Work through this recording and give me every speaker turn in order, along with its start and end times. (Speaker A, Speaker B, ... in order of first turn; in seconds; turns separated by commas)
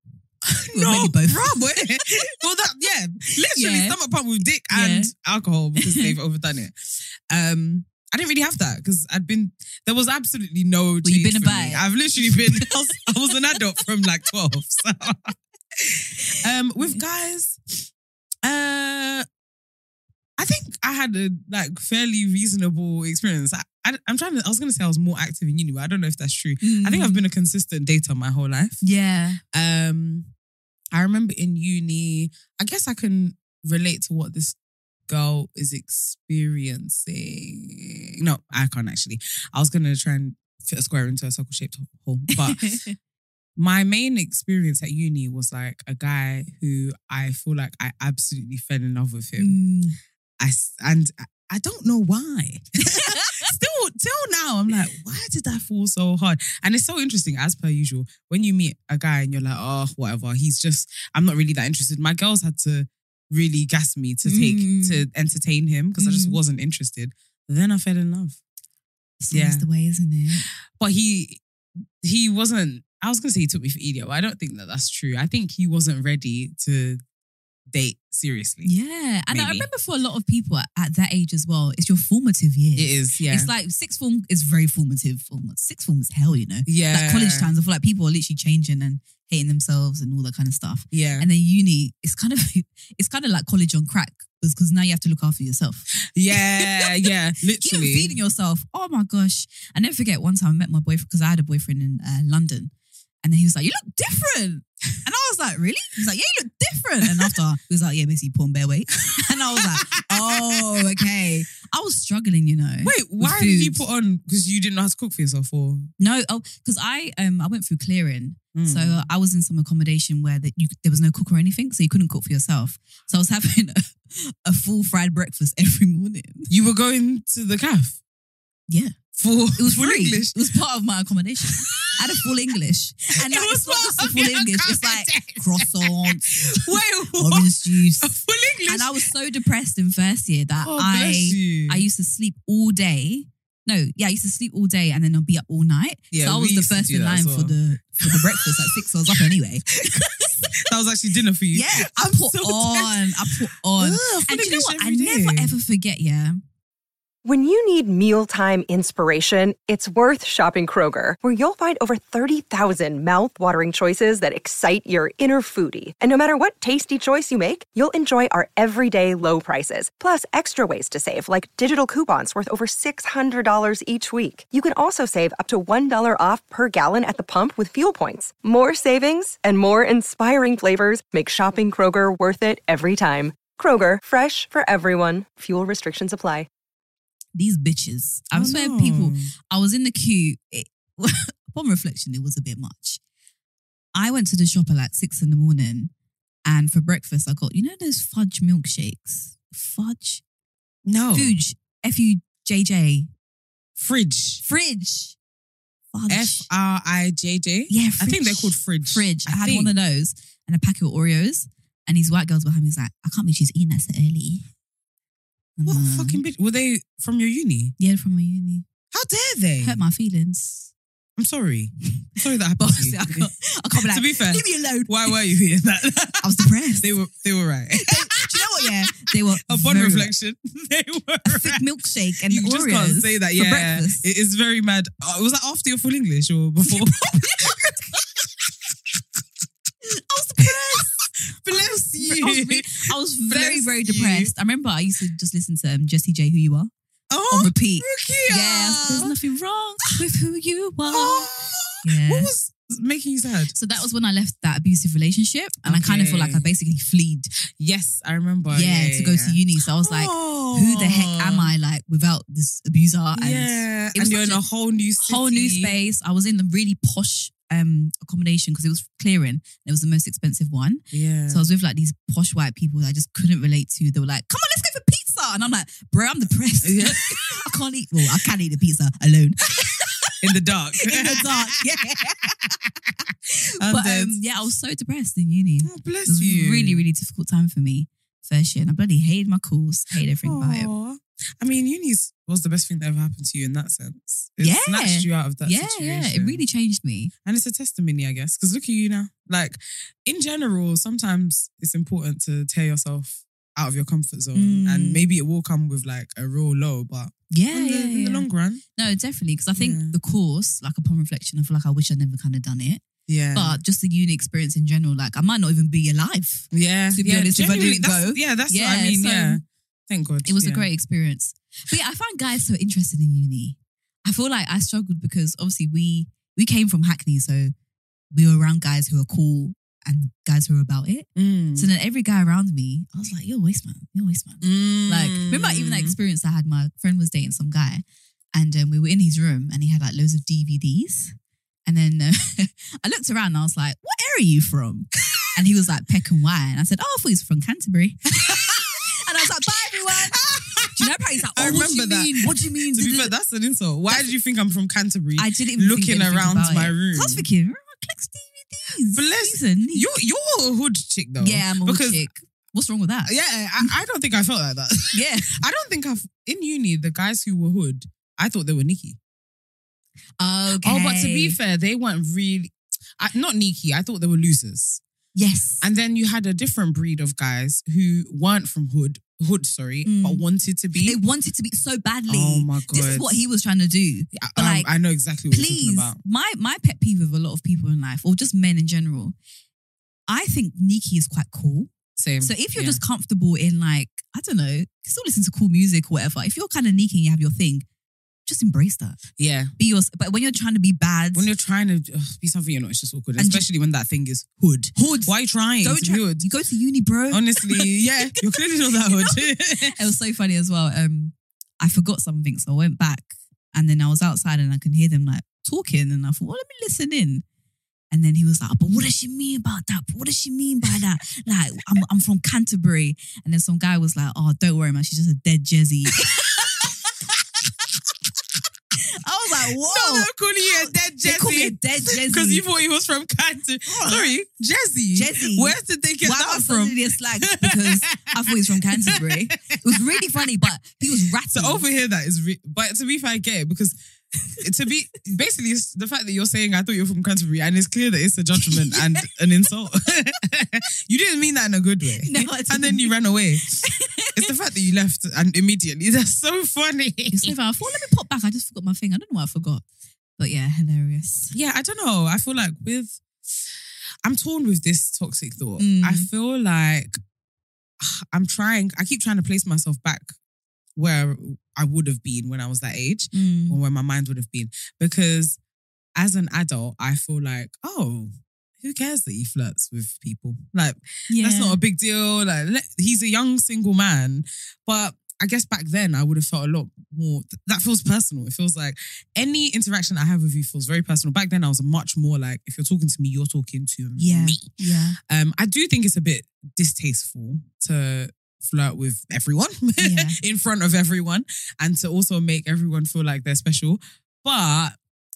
Speaker A: 0.4-17.9, Speaker B: 0.7-1.8, Speaker B: 3.4-4.0, Speaker B: 4.7-5.1, Speaker B: 5.8-6.2, Speaker B: 11.0-13.0, Speaker B: 16.2-17.0, Speaker A: 18.4-19.3, Speaker A: 20.4-28.8, Speaker B: 26.6-27.2, Speaker B: 28.8-29.4, Speaker A: 29.5-30.3, Speaker A: 30.9-34.6, Speaker A: 35.1-42.7, Speaker B: 42.5-42.9, Speaker A: 43.6-49.6, Speaker B: 49.4-50.0, Speaker A: 50.4-68.4, Speaker B: 53.0-53.5, Speaker B: 64.2-65.1, Speaker B: 66.0-66.4, Speaker B: 69.2-70.5, Speaker A: 69.3-69.7, Speaker A: 70.8-71.4, Speaker A: 72.0-77.0, Speaker A: 77.7-78.7, Speaker B: 78.6-96.9, Speaker A: 79.3-79.7, Speaker A: 82.8-83.5, Speaker A: 86.7-87.5, Speaker A: 90.9-91.3, Speaker A: 96.1-98.2, Speaker B: 97.6-102.7, Speaker B: 103.2-113.8, Speaker A: 109.5-110.8, Speaker A: 112.8-115.9, Speaker B: 116.0-126.5, Speaker A: 118.5-119.1, Speaker A: 126.5-128.0, Speaker B: 128.7-129.0, Speaker A: 129.2-130.3, Speaker B: 129.6-138.1, Speaker A: 131.5-132.0, Speaker A: 133.2-139.0, Speaker B: 138.7-150.5, Speaker A: 140.6-141.9, Speaker A: 146.1-149.3, Speaker A: 150.6-155.6, Speaker B: 151.5-156.4, Speaker C: 157.2-186.5, Speaker B: 187.3-193.0, Speaker A: 188.3-189.3, Speaker B: 193.9-195.9, Speaker B: 196.5-200.2, Speaker A: 200.8-201.4, Speaker B: 201.1-203.1, Speaker A: 203.8-204.4, Speaker B: 204.4-205.2, Speaker B: 205.9-206.5, Speaker A: 206.1-209.7, Speaker B: 207.7-214.4, Speaker B: 215.6-216.2, Speaker A: 215.7-217.8, Speaker B: 217.8-218.7, Speaker A: 218.9-219.8, Speaker B: 219.6-220.7, Speaker A: 221.2-229.0, Speaker B: 222.6-225.2, Speaker B: 226.2-226.9, Speaker B: 227.7-230.1, Speaker A: 229.5-231.7, Speaker B: 231.3-234.0, Speaker A: 232.3-237.8, Speaker B: 236.7-238.0, Speaker B: 239.8-240.9, Speaker A: 240.4-240.9, Speaker A: 241.4-244.3, Speaker B: 242.0-246.7, Speaker A: 247.1-249.1, Speaker B: 247.3-251.3, Speaker A: 250.9-253.8, Speaker B: 251.8-252.3, Speaker B: 253.5-257.3, Speaker A: 255.6-256.5, Speaker A: 257.6-261.5, Speaker B: 258.5-264.4, Speaker A: 263.1-265.8, Speaker B: 265.0-280.2, Speaker A: 270.9-271.5, Speaker A: 276.6-277.3, Speaker A: 280.2-282.3, Speaker B: 280.8-282.3, Speaker A: 283.6-284.2, Speaker B: 283.6-290.7, Speaker A: 285.6-286.8, Speaker A: 290.2-296.4, Speaker B: 294.4-297.1, Speaker A: 297.2-308.6, Speaker B: 304.3-305.1, Speaker B: 307.3-312.8, Speaker A: 309.6-310.0, Speaker A: 313.1-313.6, Speaker B: 313.3-319.4, Speaker A: 316.5-320.7, Speaker B: 320.2-327.5, Speaker B: 328.1-341.1, Speaker A: 331.2-331.7, Speaker A: 334.4-336.0, Speaker B: 341.7-353.1, Speaker A: 348.2-348.8, Speaker A: 349.9-357.3, Speaker B: 355.2-359.9, Speaker A: 358.9-362.1, Speaker B: 361.2-363.8, Speaker A: 363.1-369.0, Speaker B: 364.9-365.4, Speaker B: 370.2-371.4, Speaker A: 370.6-374.8, Speaker B: 375.1-375.6, Speaker A: 375.6-381.0, Speaker B: 379.9-380.2, Speaker B: 380.8-384.7, Speaker A: 382.1-383.2, Speaker A: 384.1-386.0, Speaker B: 385.3-389.1, Speaker B: 390.1-397.7, Speaker A: 392.0-392.8, Speaker B: 398.3-399.0, Speaker A: 399.2-399.5, Speaker B: 399.6-401.3, Speaker A: 401.1-406.3, Speaker B: 403.2-403.5, Speaker B: 404.7-417.2, Speaker A: 407.1-409.8, Speaker B: 417.9-426.7, Speaker B: 428.8-432.4, Speaker A: 429.6-440.2, Speaker B: 433.7-434.1, Speaker B: 434.9-441.6, Speaker A: 441.3-443.8, Speaker A: 444.4-453.6, Speaker B: 448.4-449.1, Speaker B: 452.0-452.9, Speaker B: 453.6-454.3, Speaker A: 454.1-457.3, Speaker B: 457.1-459.6, Speaker B: 460.2-461.3, Speaker A: 461.3-463.0, Speaker A: 464.0-467.0, Speaker B: 465.6-466.1, Speaker A: 467.8-470.1, Speaker A: 470.8-475.4, Speaker B: 473.1-473.6, Speaker A: 476.0-494.5, Speaker B: 481.1-481.6, Speaker B: 494.0-495.0, Speaker A: 495.1-504.8, Speaker B: 499.8-500.2